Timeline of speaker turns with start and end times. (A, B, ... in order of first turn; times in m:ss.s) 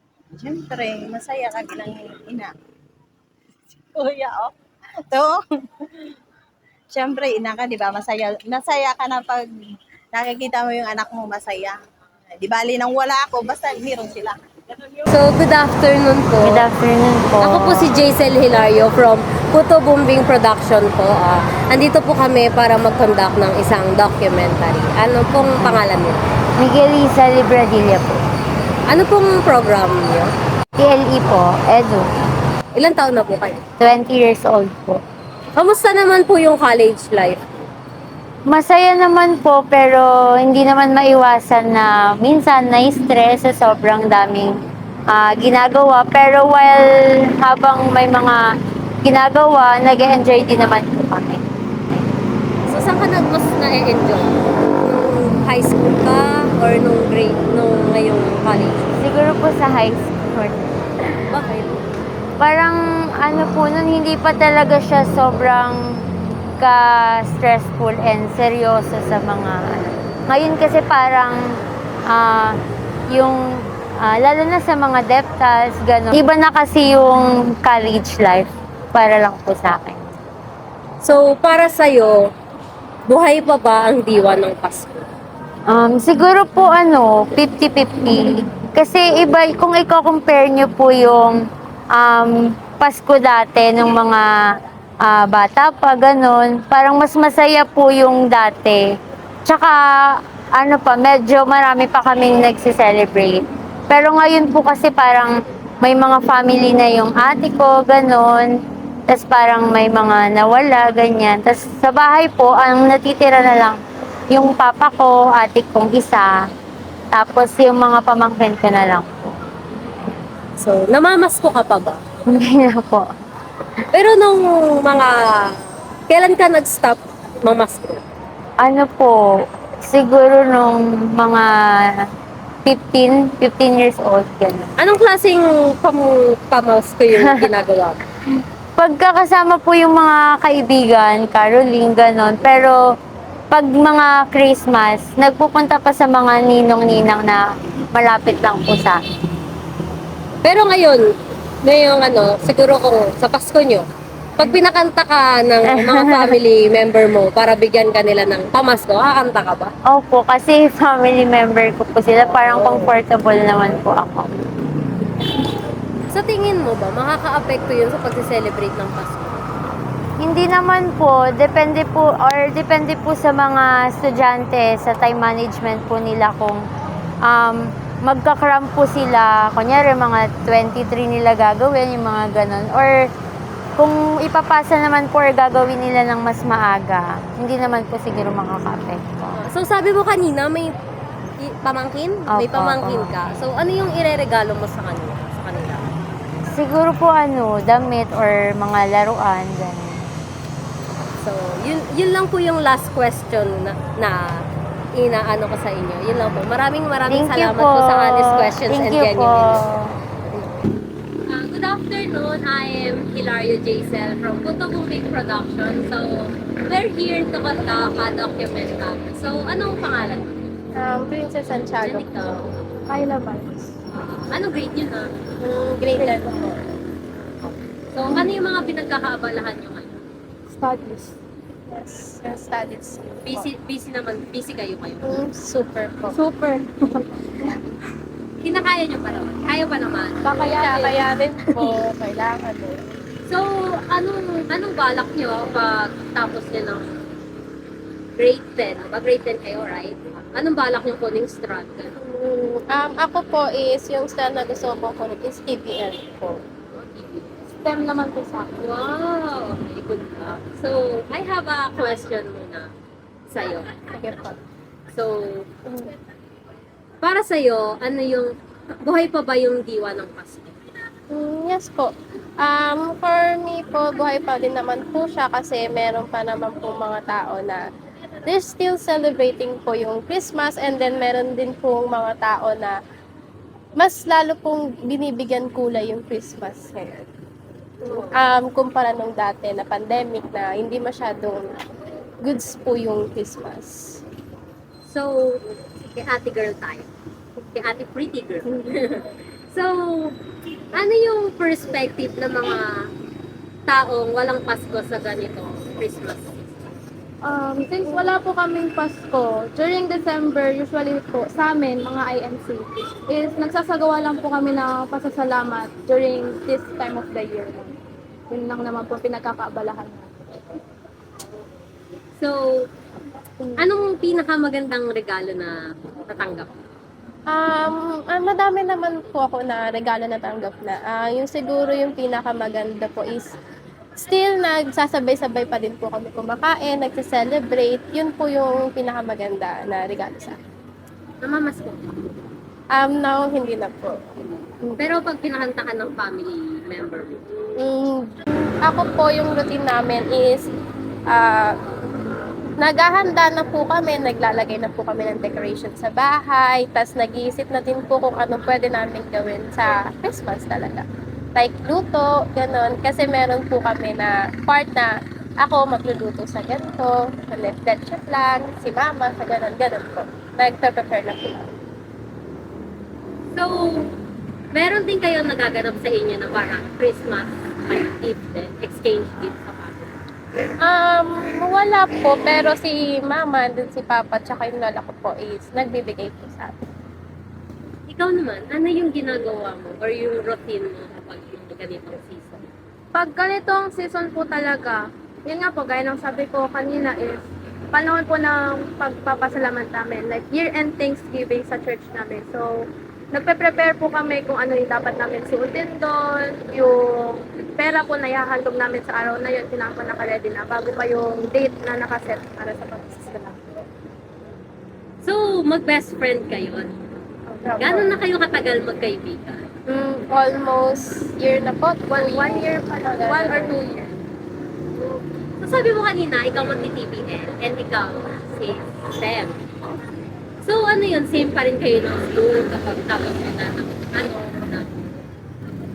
0:00.3-0:02.5 A
0:03.9-0:04.5 A
0:05.1-0:06.1 A
0:06.9-0:09.4 A
0:10.1-0:11.8 A
0:12.3-0:14.4 A
0:15.1-0:16.6 B
0:16.4-0:17.9 C
0:17.4-0:26.2 B
0:26.6-0:28.2 C
0:28.9-0:30.3 B
0:30.8-0:32.0 C
0:32.7-0:33.6 B
0:33.8-0:35.0 C
0:35.6-0:37.5 B
0:38.5-0:44.5 C
0:45.1-0:46.8 C
0:47.4-0:48.4 C
0:49.0-0:51.4 C
0:52.7-0:58.9 B
0:59.0-1:00.8 C
1:01.3-1:01.9 B
1:02.4-1:06.0 C
1:06.6-1:12.6 C
1:13.1-1:20.1 C
1:21.0-1:22.3 B
1:23.0-1:25.1 B
1:25.7-1:34.3 C
1:35.0-1:38.9 C
1:39.4-1:48.5 C
1:49.1-1:53.8 C
1:54.3-1:56.3 C
1:57.1-1:59.3 C
2:00.6-2:02.0 B
2:02.3-2:03.1 C
2:03.9-2:05.5 B
2:06.1-2:08.0 B
2:08.6-2:09.2 C
2:09.8-2:11.9 C
2:12.6-2:14.7 C
2:14.8-2:18.0 B
2:18.8-2:22.8 C
2:23.5-2:29.0 C
2:30.4-2:31.0 B
2:31.6-2:33.8 B
2:34.4-2:39.7 B
2:35.7-2:36.3 C
2:39.9-2:44.3 C
2:42.3-2:42.9 B
2:46.1-2:49.6 B
2:50.2-2:56.7 C
2:57.2-3:03.1 C
3:03.8-3:09.4 C
3:09.4-3:10.7 B
3:11.4-3:15.9 B
3:12.3-3:13.2 C
3:16.5-3:20.0 C
3:21.2-3:24.4 B
3:25.0-3:29.6 B
3:27.1-3:29.9 C
3:31.3-3:40.4 B
3:40.8-3:42.4 D
3:41.8-3:42.5 B
3:42.9-3:43.7 E
3:43.9-3:45.1 B
3:45.4-3:46.6 D
3:45.9-3:46.2 E
3:47.9-3:49.9 B
3:50.5-3:51.1 E
3:51.7-3:53.5 D
3:53.2-3:55.2 B
3:55.0-3:56.2 D
3:56.1-3:57.1 E
3:58.4-4:00.6 B
4:00.3-4:02.8 D
4:00.3-4:01.0 E
4:03.3-4:06.9 B
4:08.2-4:11.9 B
4:12.0-4:16.4 D
4:16.7-4:17.4 B
4:17.6-4:18.6 E
4:18.6-4:22.7 B
4:23.3-4:23.7 B
4:23.9-4:24.4 D
4:24.9-4:25.5 B
4:27.0-4:28.3 B
4:28.8-4:30.6 B
4:31.1-4:37.6 D
4:38.2-4:42.8 D
4:43.8-4:47.0 D
4:47.9-4:51.6 D
4:52.2-4:54.0 D
4:54.9-4:56.9 B
4:57.5-5:00.2 B
5:00.7-5:02.6 B
5:03.7-5:06.7 B
5:07.2-5:17.7 E
5:18.3-5:20.1 E
5:22.2-5:22.6 B
5:23.6-5:25.6 B
5:26.1-5:26.6 B
5:27.3-5:33.4 D
5:34.0-5:40.4 D
5:41.2-5:42.1 B
5:42.7-5:44.0 D
5:44.8-5:47.2 B
5:47.6-5:50.5 D
5:51.1-5:51.5 D
5:52.6-6:11.5 D
6:13.3-6:13.9 B
6:14.5-6:19.9 B
6:20.6-6:26.5 D
6:27.9-6:32.5 B
6:32.9-6:53.6 E
6:55.0-6:56.7 B
6:57.5-6:57.9 D
6:57.6-6:59.5 B
6:59.7-7:03.6 D
7:01.9-7:03.9 E
7:04.9-7:09.4 B
7:10.4-7:14.8 B